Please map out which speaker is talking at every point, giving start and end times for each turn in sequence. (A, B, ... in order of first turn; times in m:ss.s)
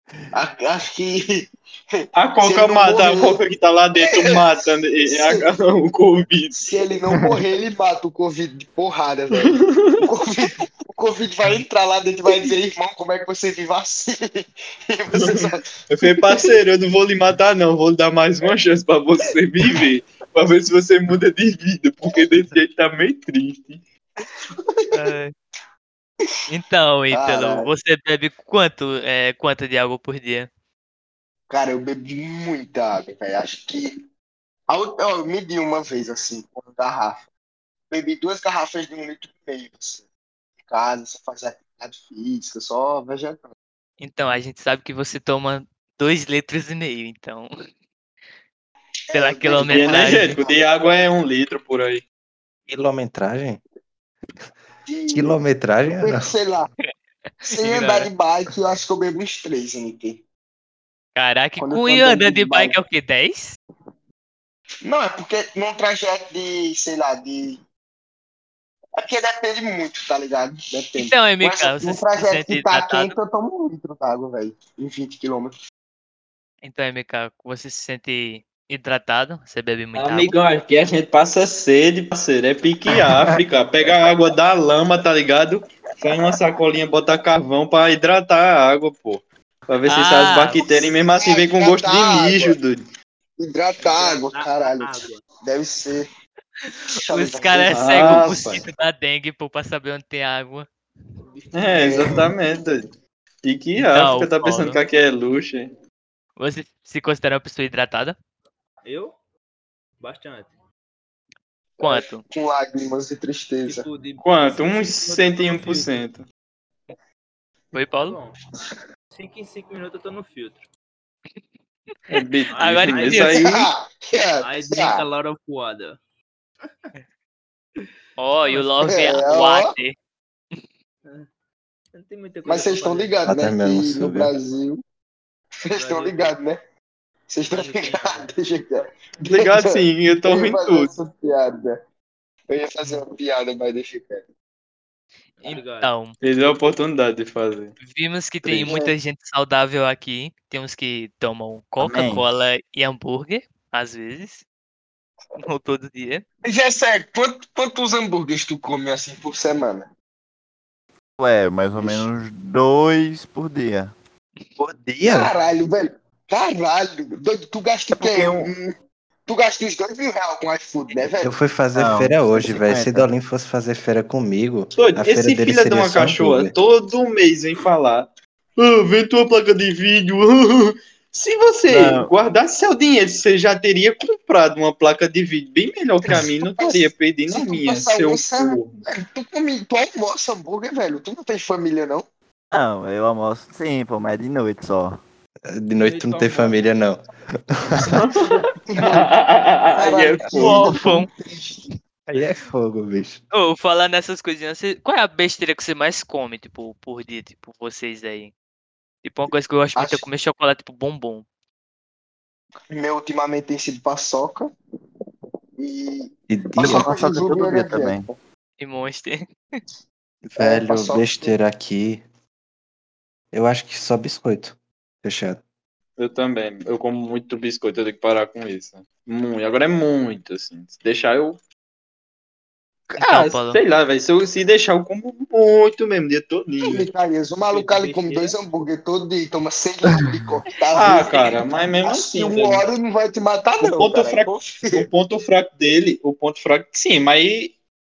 0:00.3-0:03.4 A
0:02.2-0:06.8 B
0:04.0-0:04.4 A
0:05.0-0:05.4 A
0:06.6-0:16.5 A
0:09.4-0:10.0 B
0:15.1-0:23.8 B
0:24.6-0:25.0 A
0:24.9-0:25.3 C
0:26.5-0:30.5 C
0:27.1-0:27.7 A
0:31.5-0:34.0 A
0:34.7-0:37.2 A
0:37.9-0:40.0 A
0:40.6-0:43.5 A
0:44.0-0:47.5 C
0:49.1-0:50.7 A
0:49.1-0:50.4 C
0:49.6-0:52.0 B
0:52.7-0:53.6 D
0:54.9-0:56.7 A
0:55.1-0:56.3 D
0:57.4-0:58.1 C
0:57.4-1:00.2 A
1:01.1-1:03.6 C
1:01.6-1:02.8 A
1:04.8-1:07.6 A
1:09.0-1:15.5 A
1:11.0-1:13.1 C
1:16.6-1:20.3 C
1:19.9-1:32.8 B
1:29.9-1:30.7 C
1:31.2-1:32.6 A
1:33.4-1:36.1 A
1:33.8-1:35.2 E
1:36.6-1:40.7 C
1:36.9-1:38.2 A
1:37.7-1:38.6 B
1:41.2-1:42.2 E
1:41.5-1:42.9 B
1:41.8-1:42.2 A
1:43.4-1:45.7 B
1:43.8-1:44.8 C
1:46.4-1:48.2 C
1:48.8-1:49.1 E
1:50.0-1:50.5 E
1:51.8-1:52.2 C
1:51.8-1:53.9 A
1:53.6-1:56.0 E
1:54.2-1:56.2 B
1:57.7-1:58.2 C
1:57.9-1:58.4 E
1:59.1-2:00.6 E
2:02.1-2:03.7 B
2:02.5-2:03.5 E
2:02.5-2:03.5 C
2:03.3-2:05.0 A
2:04.4-2:06.0 E
2:08.2-2:09.9 C
2:08.4-2:09.1 E
2:08.9-2:09.7 A
2:11.9-2:13.2 E
2:12.4-2:14.8 A
2:13.3-2:14.3 D
2:15.6-2:16.6 A
2:15.7-2:16.4 E
2:17.3-2:18.8 A
2:17.5-2:18.3 E
2:19.2-2:20.9 B
2:19.4-2:19.6 A
2:20.2-2:21.8 A
2:22.5-2:24.2 A
2:25.4-2:25.9 E
2:25.4-2:26.2 C
2:26.2-2:27.8 B
2:27.8-2:34.4 C
2:28.6-2:28.9 A
2:31.8-2:32.2 F
2:35.4-2:36.2 C
2:36.4-2:39.9 A
2:41.2-2:43.9 F
2:41.8-2:42.0 A
2:44.6-2:45.3 D
2:45.0-2:48.7 A
2:48.0-2:48.5 F
2:49.3-2:51.3 A
2:51.0-2:56.5 D
2:51.7-2:53.1 F
2:54.7-3:08.7 B
3:01.7-3:02.1 F
3:06.1-3:12.0 A
3:12.5-3:15.0 F
3:15.5-3:17.0 D
3:15.8-3:16.7 E
3:17.5-3:18.0 D
3:17.9-3:20.7 B
3:18.1-3:19.1 A
3:19.7-3:21.7 A
3:20.3-3:21.1 C
3:22.1-3:23.2 D
3:23.3-3:28.3 C
3:29.0-3:31.2 C
3:29.7-3:30.1 A
3:32.7-3:34.5 A
3:35.6-3:38.2 A
3:36.3-3:36.9 D
3:36.6-3:38.1 F
3:38.6-3:39.3 C
3:40.2-3:42.0 D
3:40.4-3:41.3 A
3:43.3-3:45.4 D
3:46.0-3:51.4 B
3:52.9-3:56.9 B
3:53.0-3:53.6 C
3:56.6-4:04.9 A
3:57.5-3:58.4 E
4:00.7-4:02.6 B
4:03.6-4:07.5 B